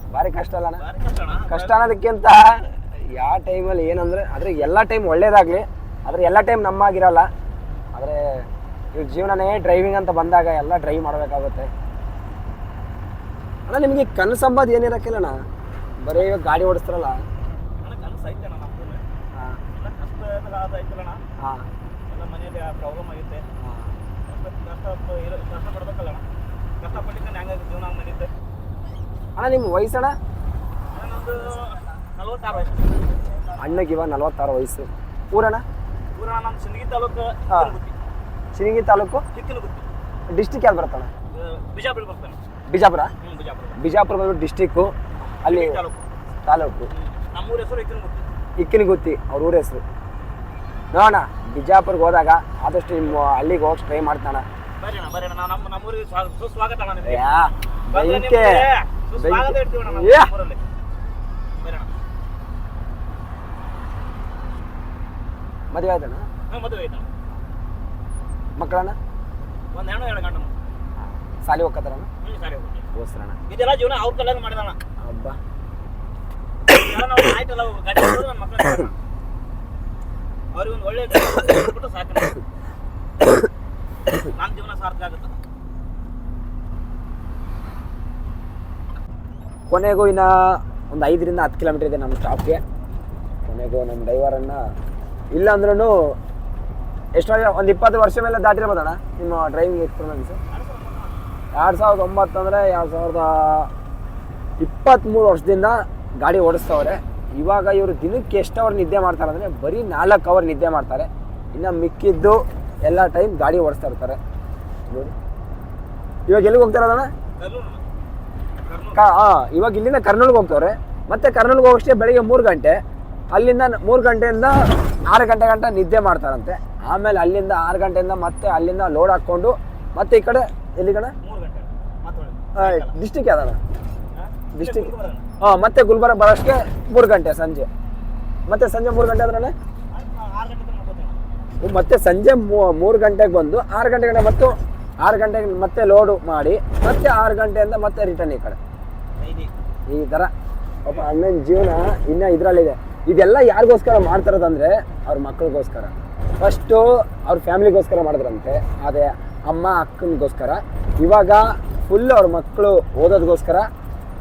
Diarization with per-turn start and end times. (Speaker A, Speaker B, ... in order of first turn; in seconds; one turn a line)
Speaker A: 0.1-0.8
Speaker B: 0.8-1.7
Speaker A: 1.5-7.3
Speaker A: 7.9-11.7
Speaker A: 13.7-15.4
Speaker A: 16.0-17.2
Speaker B: 17.8-19.0
Speaker A: 19.3-19.6
Speaker B: 19.7-21.2
Speaker A: 21.4-21.7
Speaker B: 22.1-23.4
Speaker A: 23.6-23.9
Speaker B: 24.2-26.2
Speaker B: 26.8-28.3
Speaker A: 29.4-30.2
Speaker B: 30.9-33.4
Speaker A: 33.6-35.6
Speaker B: 36.1-37.9
Speaker A: 37.5-37.8
Speaker A: 38.5-39.2
Speaker B: 39.3-39.9
Speaker A: 40.3-41.1
Speaker B: 41.3-42.4
Speaker A: 42.7-43.1
Speaker B: 43.2-43.8
Speaker A: 43.8-45.8
Speaker B: 45.4-46.1
Speaker A: 46.4-46.9
Speaker B: 46.9-48.3
Speaker A: 48.6-49.8
Speaker A: 50.9-54.5
Speaker B: 54.8-57.2
Speaker A: 57.0-58.6
Speaker B: 57.9-60.6
Speaker A: 59.2-60.3
Speaker B: 61.6-61.9
Speaker A: 65.7-66.3
Speaker B: 66.5-67.1
Speaker A: 68.6-69.0
Speaker B: 69.7-70.5
Speaker A: 71.4-72.1
Speaker B: 72.2-72.8
Speaker A: 72.9-73.4
Speaker B: 73.5-74.8
Speaker A: 75.0-75.4
Speaker B: 76.7-78.9
Speaker B: 80.5-82.4
Speaker B: 84.2-85.3
Speaker A: 89.7-92.6
Speaker A: 93.4-94.7
Speaker A: 95.3-96.2
Speaker A: 97.1-100.4
Speaker B: 100.5-101.2
Speaker A: 101.5-103.7
Speaker A: 104.6-114.2
Speaker A: 114.8-115.1
Speaker A: 116.3-117.1
Speaker B: 117.4-117.8
Speaker B: 118.6-119.0
Speaker A: 118.9-122.8
Speaker A: 123.3-131.1
Speaker B: 131.2-132.9
Speaker A: 132.6-133.6
Speaker B: 134.1-135.2
Speaker A: 134.5-137.7
Speaker A: 138.5-139.5
Speaker B: 139.9-141.2
Speaker A: 141.6-148.6
Speaker B: 149.2-149.5
Speaker A: 149.9-150.3
Speaker A: 150.8-163.7